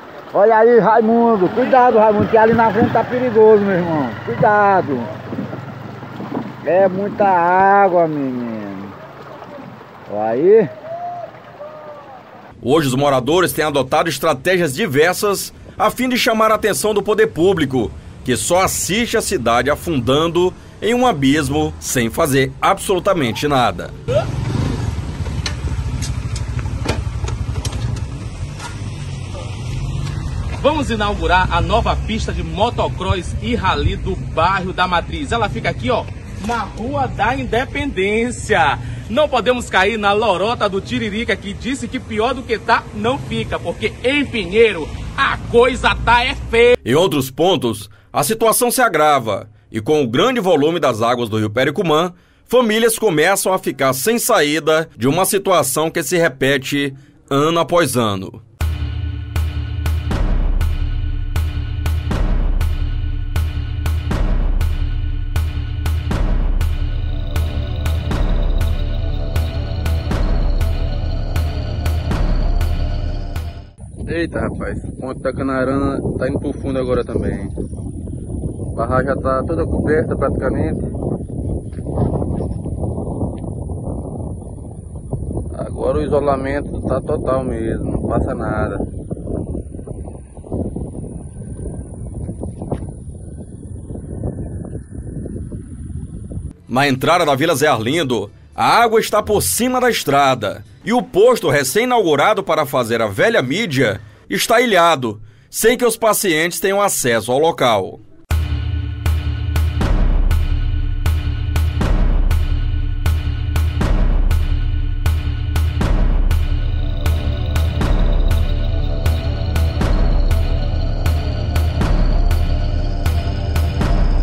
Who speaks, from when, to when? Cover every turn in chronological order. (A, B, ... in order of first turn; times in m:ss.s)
0:00.3-0:05.1 A
0:06.6-0:09.0 A
0:10.1-0:10.7 A
0:12.6-0:23.9 B
0:30.6-0:46.7 C
0:46.8-0:58.4 B
1:14.1-1:17.6 D
1:18.8-1:20.8 D
1:25.5-1:28.8 D
1:36.7-1:48.0 B